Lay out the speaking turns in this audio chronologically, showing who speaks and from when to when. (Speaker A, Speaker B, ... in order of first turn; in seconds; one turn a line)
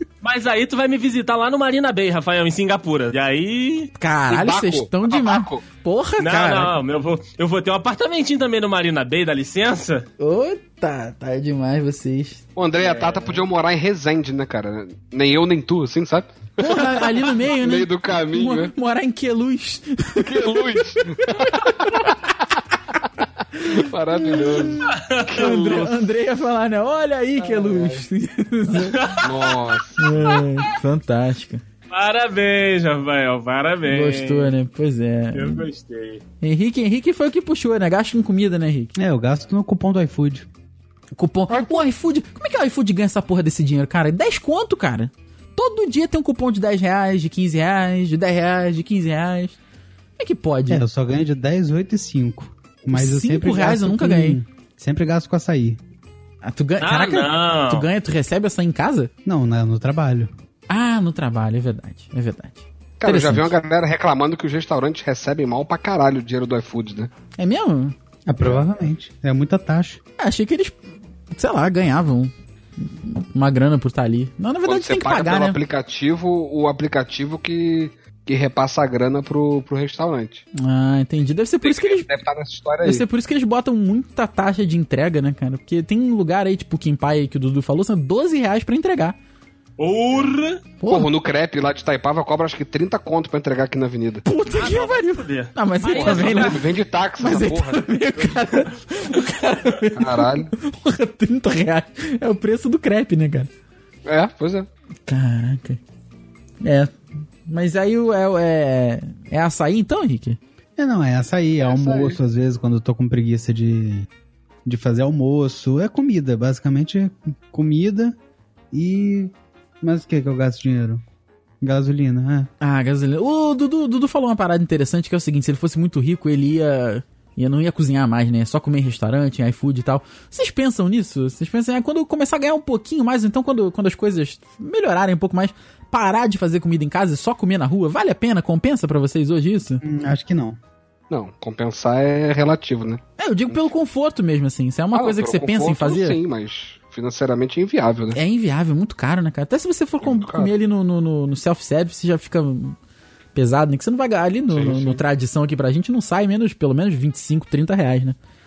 Speaker A: 0.2-3.9
Speaker B: 4.0-6.7
Speaker C: 4.3-5.6
Speaker A: 6.2-10.1
Speaker B: 10.2-12.4
Speaker C: 12.6-18.7
Speaker A: 12.8-13.4
Speaker B: 16.6-22.1
Speaker C: 20.2-22.1
Speaker B: 23.6-29.1
Speaker C: 23.7-26.0
Speaker A: 24.9-25.7
Speaker C: 27.4-28.0
Speaker A: 28.9-29.5
Speaker C: 29.2-30.1
Speaker B: 30.0-31.6
Speaker A: 30.3-30.6
Speaker A: 31.9-34.5
Speaker B: 33.9-35.6
Speaker A: 35.3-36.2
Speaker B: 36.4-38.9
Speaker D: 39.0-40.5
Speaker B: 41.1-49.6
Speaker B: 50.2-50.9
Speaker D: 50.7-55.8
Speaker B: 52.9-54.4
Speaker B: 56.4-59.1
Speaker A: 56.8-57.9
Speaker D: 59.2-60.3
Speaker B: 60.7-63.5
Speaker C: 63.0-67.1
Speaker B: 67.4-67.9
Speaker D: 68.3-70.0
Speaker B: 70.2-70.7
Speaker B: 71.3-75.6
Speaker C: 74.7-80.4
Speaker B: 80.5-82.1
Speaker C: 81.6-83.0
Speaker B: 82.8-89.2
Speaker A: 89.8-90.6
Speaker B: 90.8-91.1
Speaker C: 90.9-94.2
Speaker B: 94.2-96.6
Speaker A: 94.6-96.7
Speaker C: 95.9-97.9
Speaker B: 97.2-103.5
Speaker C: 99.9-100.5
Speaker C: 104.0-104.7
Speaker B: 105.1-105.8
Speaker B: 106.6-110.4
Speaker D: 110.8-114.1
Speaker C: 111.6-112.2
Speaker D: 114.6-118.2
Speaker D: 118.7-121.0
Speaker D: 121.6-122.5
Speaker B: 122.6-139.8
Speaker D: 139.8-140.6
Speaker C: 141.1-143.6
Speaker B: 143.2-146.2
Speaker C: 144.9-148.2
Speaker B: 148.1-152.8
Speaker C: 150.0-150.5
Speaker B: 153.3-158.2
Speaker C: 154.5-155.0